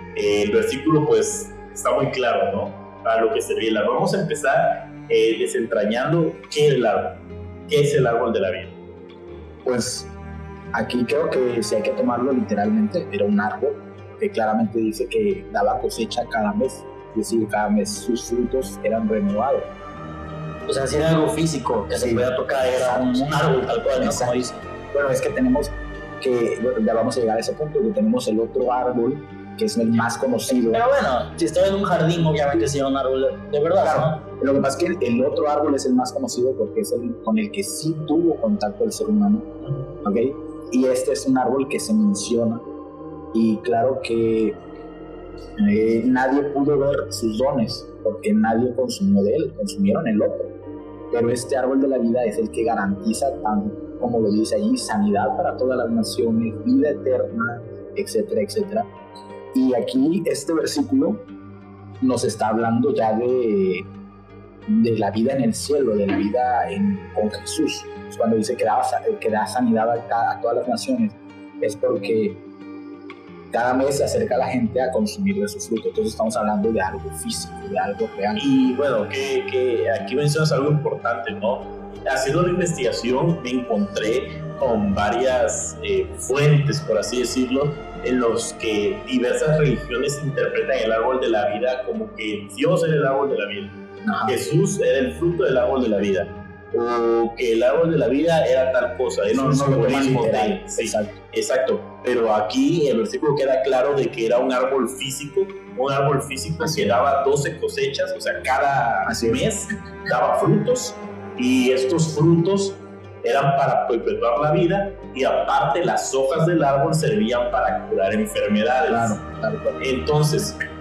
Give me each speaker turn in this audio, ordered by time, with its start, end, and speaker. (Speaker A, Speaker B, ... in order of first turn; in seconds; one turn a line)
Speaker A: 0.1-8.8
Speaker B: 9.6-10.1
Speaker B: 10.7-19.7
Speaker C: 20.7-24.6
Speaker B: 21.9-30.9
Speaker C: 30.5-34.2
Speaker B: 33.8-39.5
Speaker B: 40.0-42.6
Speaker B: 43.3-44.6
Speaker B: 45.6-50.5
Speaker B: 51.1-58.9
Speaker B: 59.5-61.3
Speaker B: 62.0-63.9
Speaker B: 64.7-72.4
Speaker B: 73.5-78.5
Speaker A: 78.4-119.2
Speaker B: 94.0-94.4
Speaker B: 99.3-101.2
Speaker B: 106.6-107.0
Speaker B: 109.1-109.4
Speaker B: 118.9-119.8
Speaker A: 119.8-120.6